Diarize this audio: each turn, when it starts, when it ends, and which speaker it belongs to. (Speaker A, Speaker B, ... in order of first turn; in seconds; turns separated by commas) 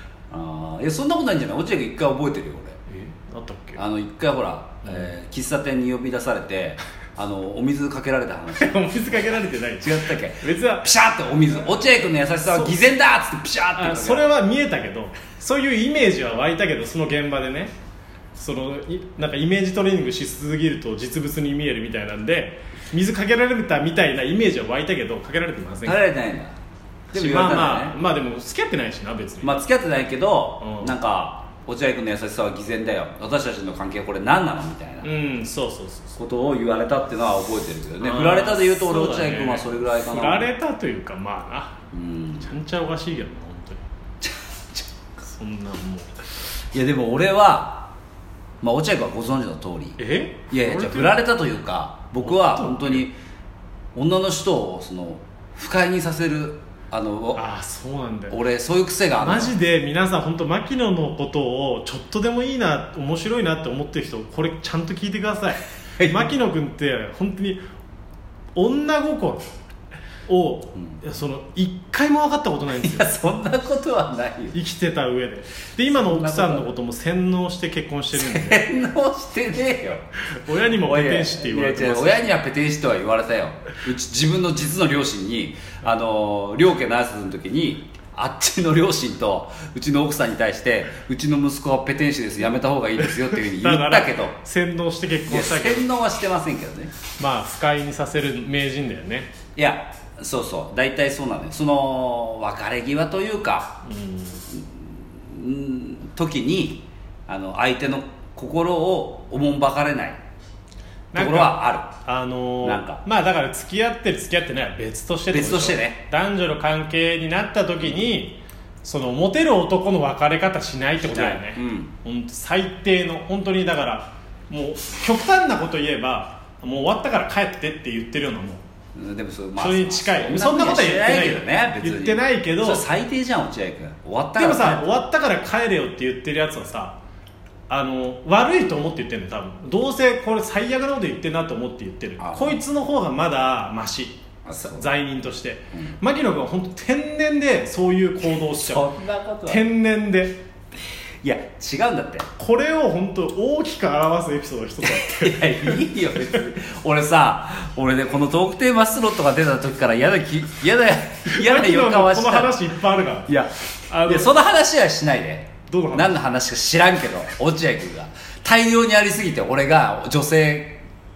Speaker A: 0.3-2.8, Speaker B: 2.9-3.8, Speaker A: 3.8-9.2, Speaker B: 4.8-5.1, Speaker B: 8.6-10.9, Speaker A: 9.8-14.3, Speaker B: 12.5-12.9, Speaker B: 13.8-17.7, Speaker B: 18.4-26.0, Speaker A: 25.9-26.6, Speaker B: 27.1-29.6, Speaker A: 27.1-28.0, Speaker A: 29.4-35.1, Speaker B: 30.6-31.0, Speaker B: 35.0-36.2, Speaker A: 36.2-40.5, Speaker B: 38.0-41.8, Speaker A: 41.9-42.5, Speaker B: 42.4-43.8, Speaker A: 44.2-44.9, Speaker B: 45.2-46.2, Speaker A: 46.7-47.9, Speaker A: 48.6-50.0, Speaker B: 50.0-51.3, Speaker A: 50.5-53.1, Speaker B: 52.2-53.1, Speaker A: 54.0-57.5, Speaker B: 57.4-58.4, Speaker A: 58.3-59.5, Speaker B: 59.2-67.6, Speaker A: 66.0-66.3, Speaker B: 68.5-69.5, Speaker B: 70.3-73.2, Speaker A: 72.7-74.6, Speaker B: 74.5-78.7, Speaker A: 75.8-76.7, Speaker A: 78.1-80.1, Speaker B: 80.3-82.3, Speaker A: 80.7-94.4, Speaker B: 93.1-95.9, Speaker A: 95.3-96.9, Speaker B: 97.2-99.3, Speaker A: 99.6-103.8, Speaker B: 103.8-104.5, Speaker A: 104.5-110.2, Speaker B: 111.1-128.6, Speaker A: 111.2-112.0, Speaker A: 112.6-113.0, Speaker A: 115.3-116.0, Speaker A: 121.1-121.9, Speaker A: 128.9-135.0, Speaker B: 129.6-132.8, Speaker B: 134.4-137.0, Speaker B: 137.7-148.9, Speaker A: 142.2-142.6, Speaker A: 144.4-144.9, Speaker A: 148.5-149.7, Speaker B: 149.5-150.4, Speaker A: 151.2-152.3, Speaker B: 152.4-156.4, Speaker A: 154.8-162.6, Speaker B: 161.2-163.3, Speaker A: 163.3-170.8, Speaker B: 163.9-164.4, Speaker B: 165.7-166.1